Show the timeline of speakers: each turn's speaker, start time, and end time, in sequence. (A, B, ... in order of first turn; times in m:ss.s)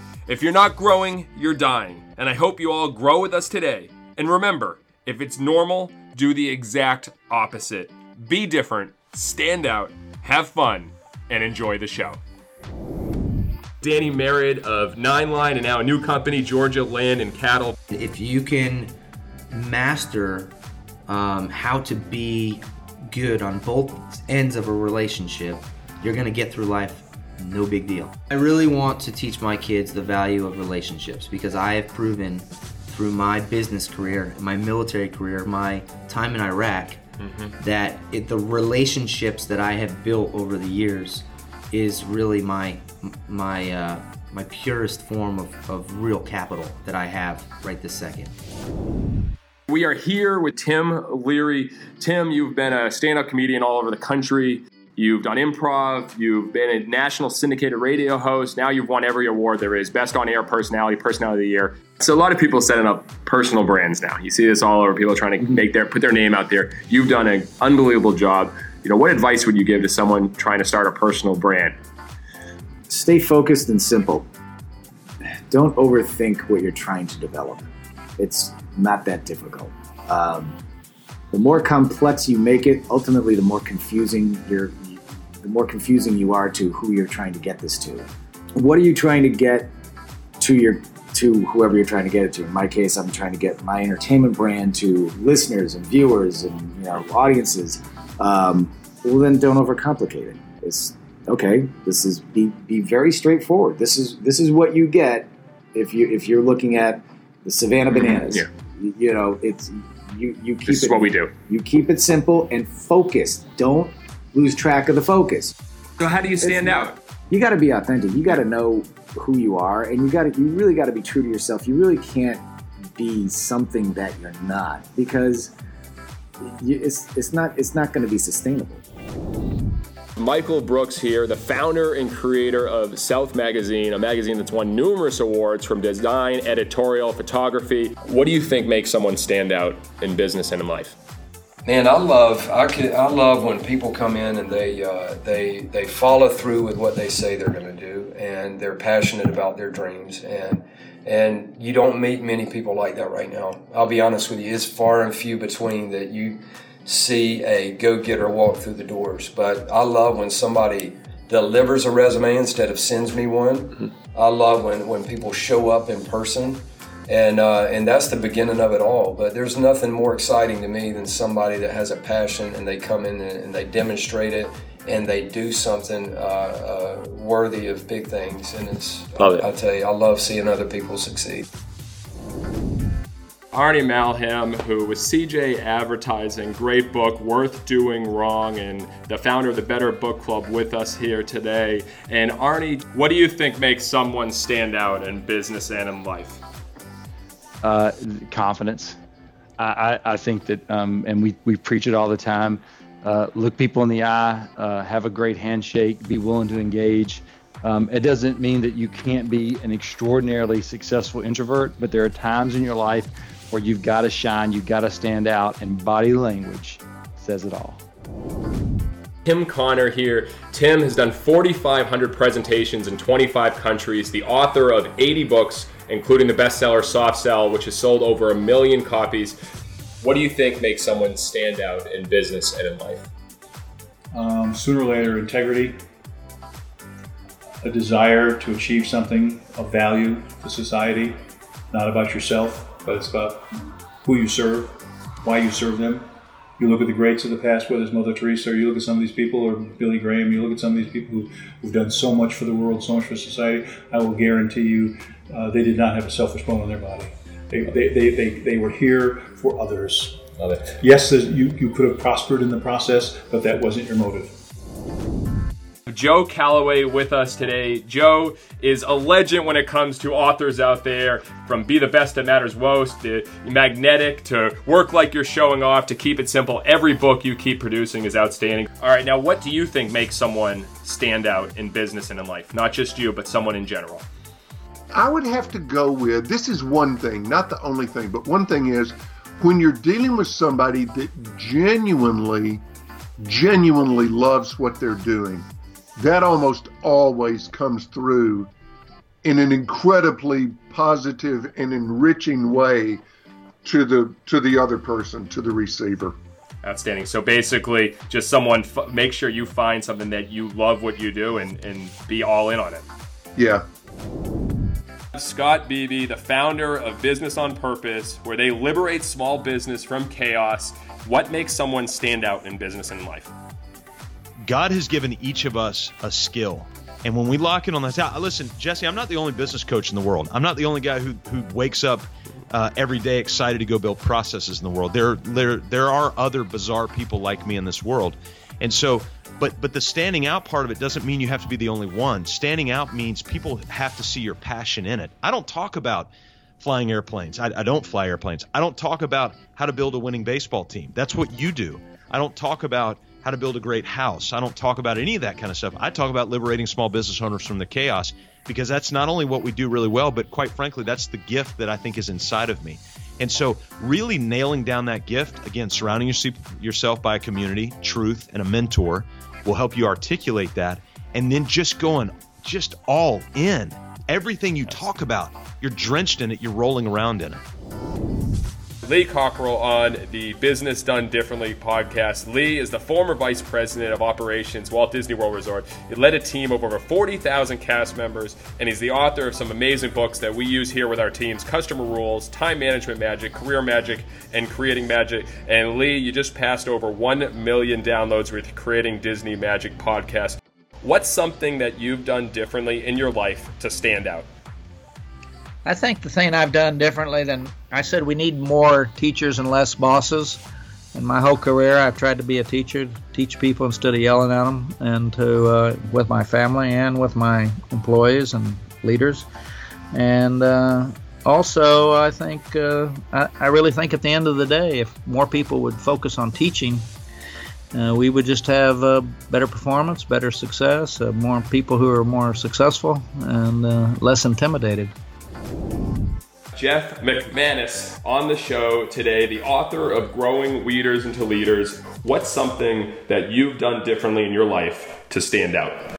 0:00.3-0:12.2 A
0:13.8-0:17.8 A
0:17.9-0:18.9 B
0:19.5-0:20.5 B
0:21.1-0:37.0 B
0:37.2-0:37.5 A
0:37.6-0:48.3 B
0:49.7-1:11.8 A
1:12.9-1:14.3 C
1:15.5-1:20.6 C
1:21.3-1:29.7 C
1:30.4-1:55.5 C
1:47.9-1:48.5 A
1:50.6-1:51.3 A
1:56.0-1:57.0 A
1:56.4-2:05.5 C
2:06.4-2:08.8 C
2:10.2-2:21.0 A
2:21.6-3:01.4 D
2:59.2-2:59.5 A
3:03.5-3:16.4 A
3:17.6-3:19.0 E
3:19.6-3:37.8 E
3:39.3-3:49.4 A
3:50.0-3:53.1 A
3:54.2-3:55.6 F
3:57.7-4:01.1 F
4:01.7-4:03.3 F
4:04.1-4:04.7 F
4:05.3-4:06.0 F
4:06.6-4:14.9 F
4:15.4-4:20.1 F
4:20.4-4:20.7 A
4:20.8-4:24.3 F
4:25.9-4:44.0 A
4:44.9-4:52.6 G
4:53.2-4:55.4 G
4:56.0-4:58.5 G
4:59.2-5:03.0 G
5:03.6-5:06.2 G
5:06.6-5:12.8 A
5:13.4-5:13.6 G
5:15.1-5:23.3 A
5:24.5-5:46.1 H
5:46.6-6:17.4 H
6:18.8-6:44.3 A
6:45.6-6:50.4 I
6:51.0-6:59.3 I
6:59.9-7:06.9 I
7:07.7-7:14.9 I
7:16.5-7:25.8 A